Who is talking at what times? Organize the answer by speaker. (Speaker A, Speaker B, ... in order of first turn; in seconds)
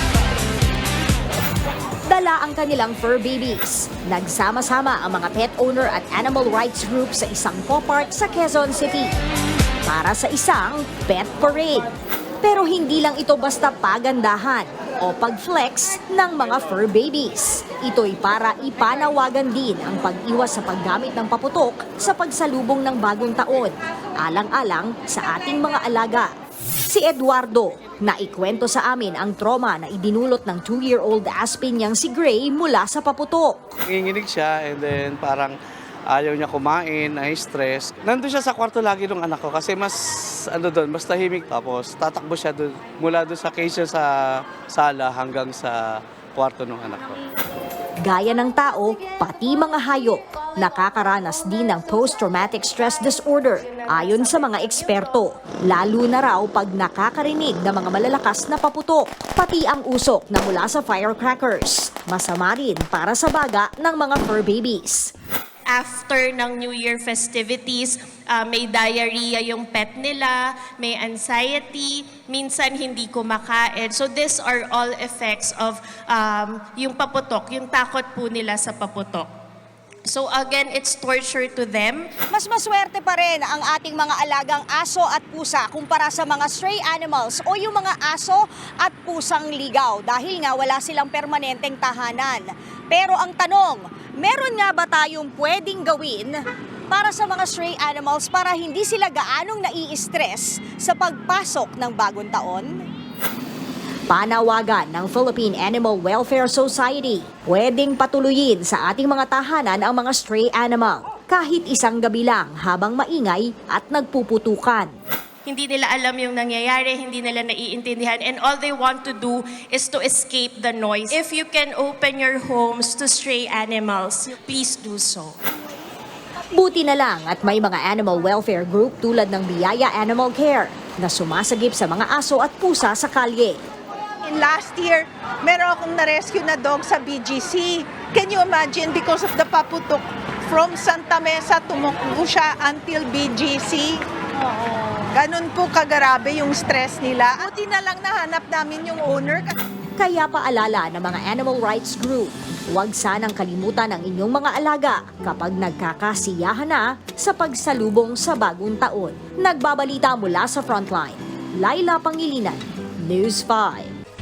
Speaker A: 2.1-9.1, 9.8-11.8, 12.4-26.3, 26.9-33.7, 48.0-65.1, 104.1-114.9, 126.5-133.6, 150.0-163.9
Speaker B: 33.9-35.6, 36.1-47.2
Speaker C: 65.7-79.3, 80.0-82.1, 115.5-125.4
Speaker D: 82.3-96.3, 96.9-102.8
Speaker E: 134.2-144.0, 145.0-149.6